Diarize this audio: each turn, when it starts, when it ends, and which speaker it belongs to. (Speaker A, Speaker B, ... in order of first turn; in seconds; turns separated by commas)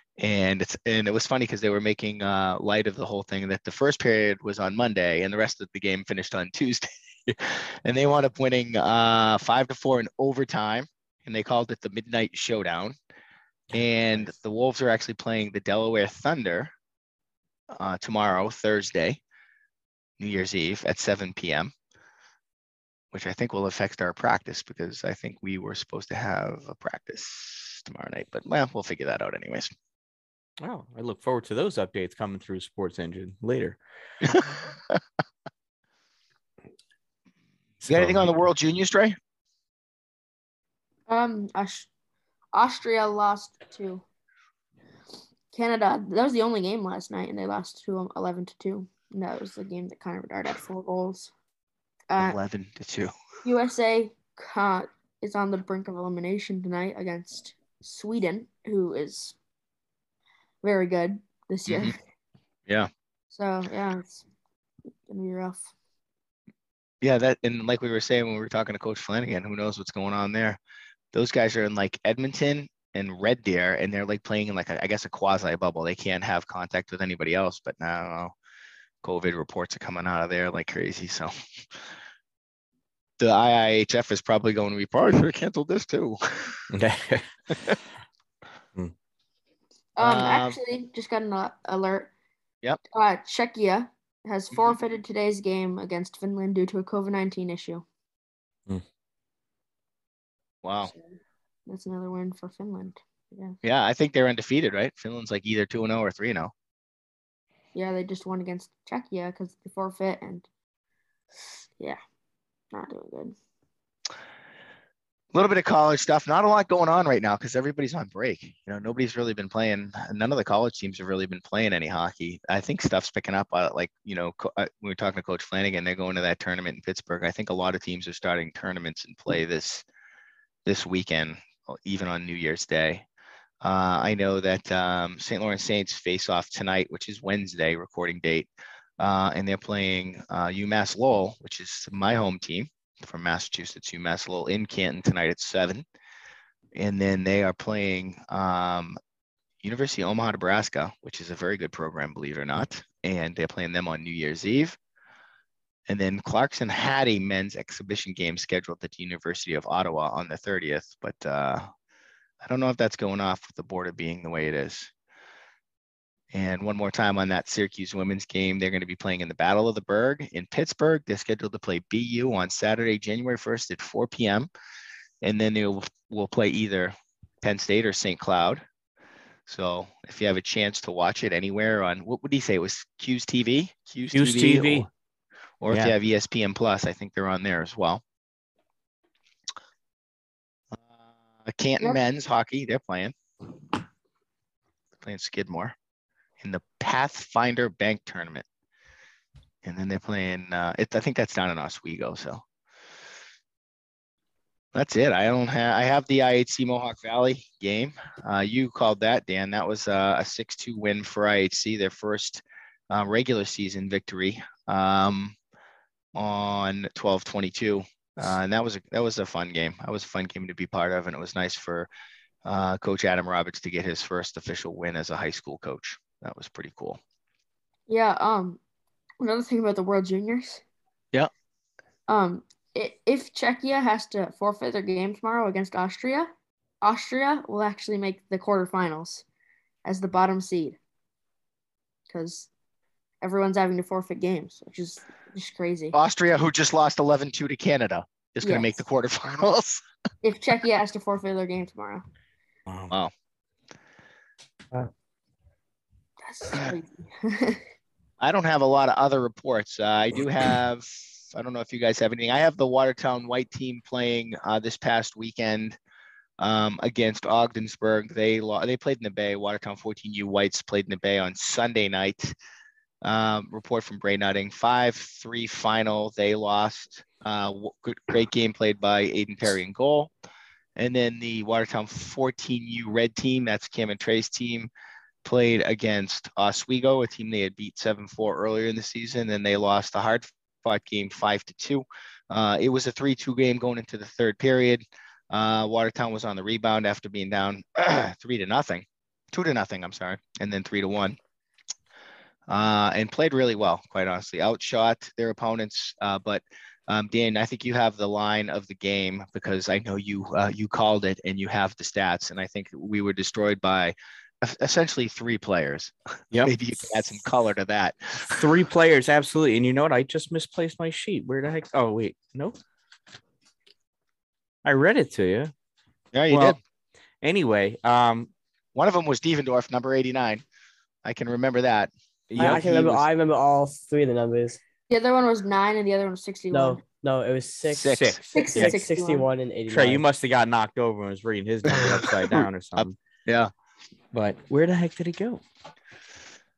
Speaker A: 0.2-12.9, Speaker B: 13.7-14.3, Speaker A: 13.7-16.7, Speaker A: 17.7-19.2, Speaker A: 20.2-21.7, Speaker A: 23.1-29.7, Speaker B: 30.6-33.8, Speaker A: 34.2-35.0, Speaker B: 37.8-38.3, Speaker A: 37.9-39.1, Speaker C: 41.1-41.9, Speaker C: 42.5-44.0, Speaker C: 45.5-51.3, Speaker C: 52.1-52.4, Speaker A: 52.2-53.1, Speaker C: 53.4-59.4, Speaker C: 60.6-62.0, Speaker A: 61.7-62.0, Speaker C: 63.3-64.2, Speaker C: 65.1-65.7, Speaker A: 67.0-70.6, Speaker A: 71.1-78.3, Speaker A: 79.0-81.3, Speaker A: 83.2-86.6, Speaker B: 86.7-87.8, Speaker C: 90.0-92.1, Speaker A: 90.0-90.6, Speaker C: 92.9-97.8, Speaker A: 94.5-94.8, Speaker A: 100.6-100.9, Speaker C: 101.7-103.6, Speaker A: 103.6-106.5, Speaker C: 107.7-110.5, Speaker C: 112.7-113.3, Speaker A: 115.3-129.8, Speaker A: 130.6-133.1, Speaker A: 133.6-145.8, Speaker A: 146.7-148.9, Speaker A: 149.6-154.8, Speaker A: 155.9-161.6, Speaker A: 162.4-164.9, Speaker A: 166.3-174.5, Speaker A: 175.2-178.6, Speaker A: 179.5-184.9, Speaker B: 184.1-184.9, Speaker A: 185.6-188.0, Speaker A: 190.7-193.1, Speaker A: 195.0-195.7, Speaker A: 196.4-198.4, Speaker A: 199.6-202.4, Speaker A: 204.7-215.4, Speaker A: 216.1-221.9, Speaker A: 222.4-227.0, Speaker C: 227.9-228.6, Speaker C: 229.2-230.6, Speaker C: 232.1-239.2, Speaker C: 239.8-240.8, Speaker C: 242.1-242.5, Speaker C: 243.2-245.9, Speaker A: 245.9-249.8, Speaker C: 248.4-248.7, Speaker C: 250.2-252.0, Speaker B: 252.7-252.9, Speaker C: 256.2-257.6, Speaker A: 258.2-265.8, Speaker A: 266.4-272.3, Speaker A: 273.0-280.1, Speaker A: 280.8-284.7, Speaker A: 285.2-301.2, Speaker A: 302.5-318.5, Speaker B: 318.2-322.6, Speaker B: 324.6-325.5, Speaker A: 326.1-326.6, Speaker B: 326.3-326.6, Speaker B: 327.2-328.3, Speaker A: 328.7-330.4, Speaker A: 331.0-332.6, Speaker B: 332.3-333.0, Speaker D: 332.4-334.6, Speaker C: 334.9-336.8, Speaker D: 336.5-340.0, Speaker A: 337.7-338.2, Speaker B: 337.7-338.7, Speaker C: 338.3-339.3, Speaker B: 339.7-342.9, Speaker A: 341.7-343.5, Speaker B: 344.1-345.4